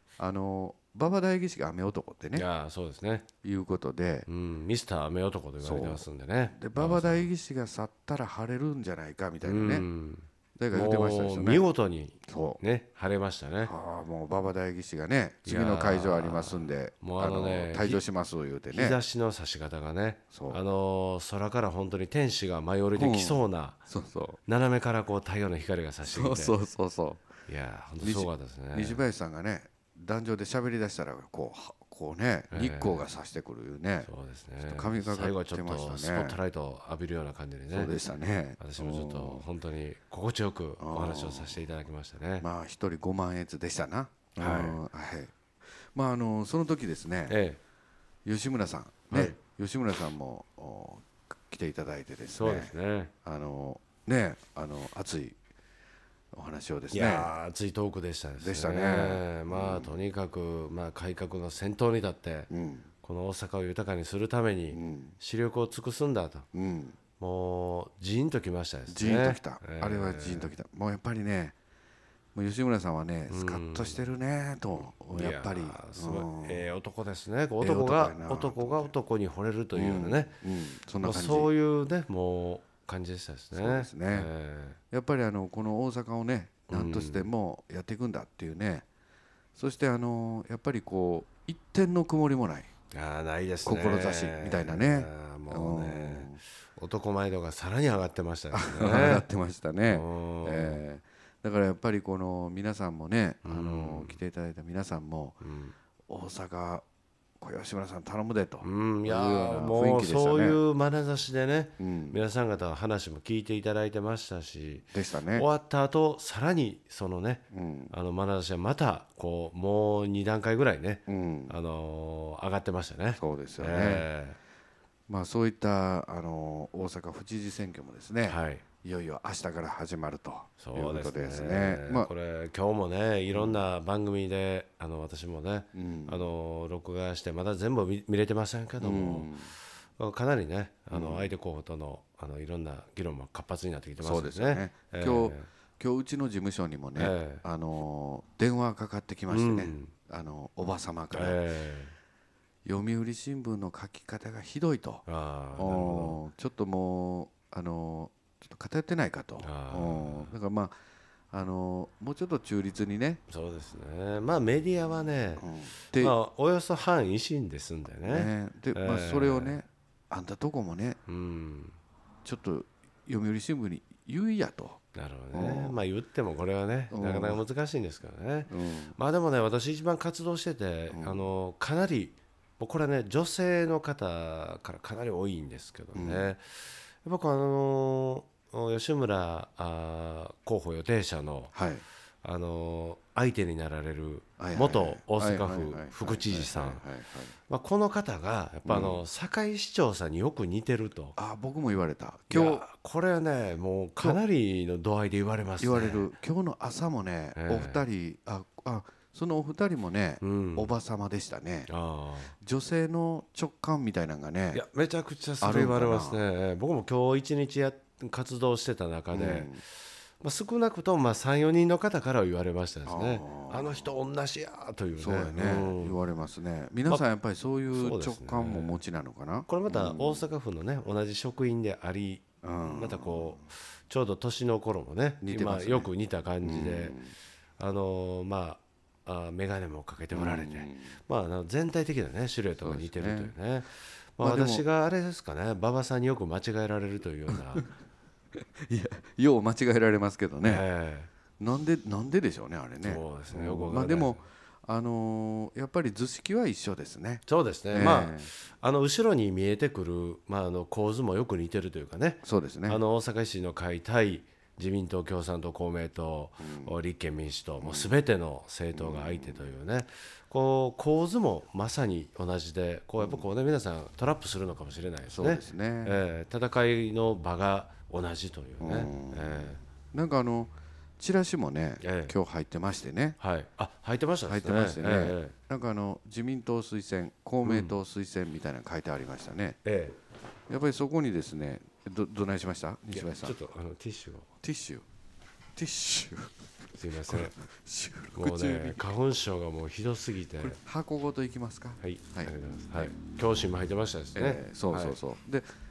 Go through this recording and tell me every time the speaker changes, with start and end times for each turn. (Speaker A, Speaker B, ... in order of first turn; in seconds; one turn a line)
Speaker A: 0.2-2.5
Speaker B: 2.3-3.2
Speaker A: 3.4-4.3
Speaker B: 4.3-7.3
Speaker A: 5.6-9.9
Speaker B: 9.4-13.7
Speaker A: 10.6-11.7
Speaker A: 12.2-12.6
Speaker A: 13.6-19.0
Speaker B: 15.4-18.0
Speaker B: 18.7-23.8
Speaker A: 20.3-20.6
Speaker A: 22.9-24.4
Speaker B: 24.4-26.6
Speaker A: 26.1-27.2
Speaker B: 27.5-29.0
Speaker A: 28.0-34.1
Speaker B: 32.5-33.0
Speaker B: 34.0-38.0
Speaker A: 34.6-36.4
Speaker A: 37.7-39.5
Speaker B: 38.6-42.5
Speaker A: 40.8-41.6
Speaker A: 42.4-47.4
Speaker B: 44.4-44.8
Speaker B: 47.3-47.6
Speaker A: 48.2-52.7
Speaker B: 49.1-49.4
Speaker B: 52.3-53.1
Speaker A: 53.2-55.4
Speaker A: 56.3-57.3
Speaker B: 56.9-62.5
Speaker A: 58.4-60.0
Speaker A: 62.5-62.9
Speaker B: 63.0-66.5
Speaker A: 64.7-65.2
Speaker A: 66.5-67.0
Speaker B: 67.2-70.5
Speaker A: 68.9-71.5
Speaker A: 72.3-76.7
Speaker B: 73.3-74.1
Speaker B: 74.7-80.4
Speaker A: 77.6-78.9
Speaker A: 79.7-81.5
Speaker B: 81.0-84.8
Speaker A: 83.5-84.3
Speaker A: 84.9-88.8
Speaker B: 86.7-87.3
Speaker A: 89.5-92.7
Speaker B: 92.9-99.2
Speaker A: 93.6-96.4
Speaker A: 98.5-105.4
Speaker B: 99.9-100.8
Speaker B: 103.4-104.2
Speaker B: 105.4-105.7
Speaker A: 106.1-106.8
Speaker A: 107.4-110.6
Speaker B: 108.6-124.4
Speaker A: 111.8-112.2
Speaker A: 114.9-115.5
Speaker A: 117.5-117.9
Speaker A: 121.1-121.5
Speaker A: 123.2-124.1
Speaker A: 125.1-132.1
Speaker B: 128.2-128.6
Speaker B: 130.6-145.5
Speaker A: 133.3-133.6
Speaker A: 135.7-136.2
Speaker A: 138.8-139.5
Speaker A: 140.9-141.3
Speaker A: 144.0-151.4
Speaker B: 146.9-147.4
Speaker B: 149.3-149.9
Speaker B: 151.1-151.9
Speaker A: 152.6-155.0
Speaker B: 155.1-156.2
Speaker A: 155.6-160.8
Speaker B: 159.4-160.3
Speaker A: 161.3-163.2
Speaker B: 163.3-169.6
Speaker A: 165.4-166.2
Speaker A: 168.0-171.0
Speaker B: 171.1-171.8
Speaker A: 172.2-174.8
Speaker B: 174.9-191.5
Speaker A: 175.3-175.8
Speaker A: 176.9-177.4
Speaker A: 178.5-179.0
Speaker A: 180.9-181.3
Speaker A: 185.9-186.3
Speaker A: 191.5-191.8
Speaker B: 192.2-196.8
Speaker A: 194.4-197.3
Speaker B: 197.5-201.2
Speaker A: 198.6-199.0
Speaker A: 201.2-202.6
Speaker B: 202.3-206.1
Speaker A: 205.6-211.7
Speaker B: 207.3-207.8
Speaker B: 210.2-210.7
Speaker B: 211.7-212.3
Speaker A: 212.4-214.6
Speaker B: 214.5-226.0
Speaker A: 215.4-216.2
Speaker A: 219.1-219.6
Speaker A: 222.8-223.9
Speaker A: 225.0-230.3
Speaker B: 227.7-228.8
Speaker B: 229.5-237.0
Speaker A: 232.4-233.5
Speaker A: 235.2-235.9
Speaker A: 236.4-237.1
Speaker B: 237.6-247.7
Speaker A: 240.1-241.0
Speaker A: 242.6-243.3
Speaker A: 244.2-244.6
Speaker A: 247.3-247.7
Speaker A: 248.3-250.6
Speaker B: 250.4-251.1
Speaker A: 251.4-258.3
Speaker B: 252.8-254.2
Speaker B: 257.2-279.6
Speaker A: 262.2-262.8
Speaker A: 266.4-266.8
Speaker A: 267.6-267.9
Speaker A: 268.7-269.5
Speaker A: 273.0-273.3
Speaker A: 275.1-276.0
Speaker A: 278.6-283.2
Speaker B: 281.8-282.1
Speaker B: 283.2-285.3
Speaker A: 284.2-289.6
Speaker B: 287.4-287.8
Speaker B: 289.6-290.0
Speaker A: 290.5-293.4
Speaker B: 292.9-294.3
Speaker A: 294.4-294.8
Speaker A: 295.6-298.8
Speaker B: 296.7-297.3
Speaker B: 298.1-300.6
Speaker A: 300.4-302.9
Speaker B: 301.8-305.0
Speaker A: 304.1-305.5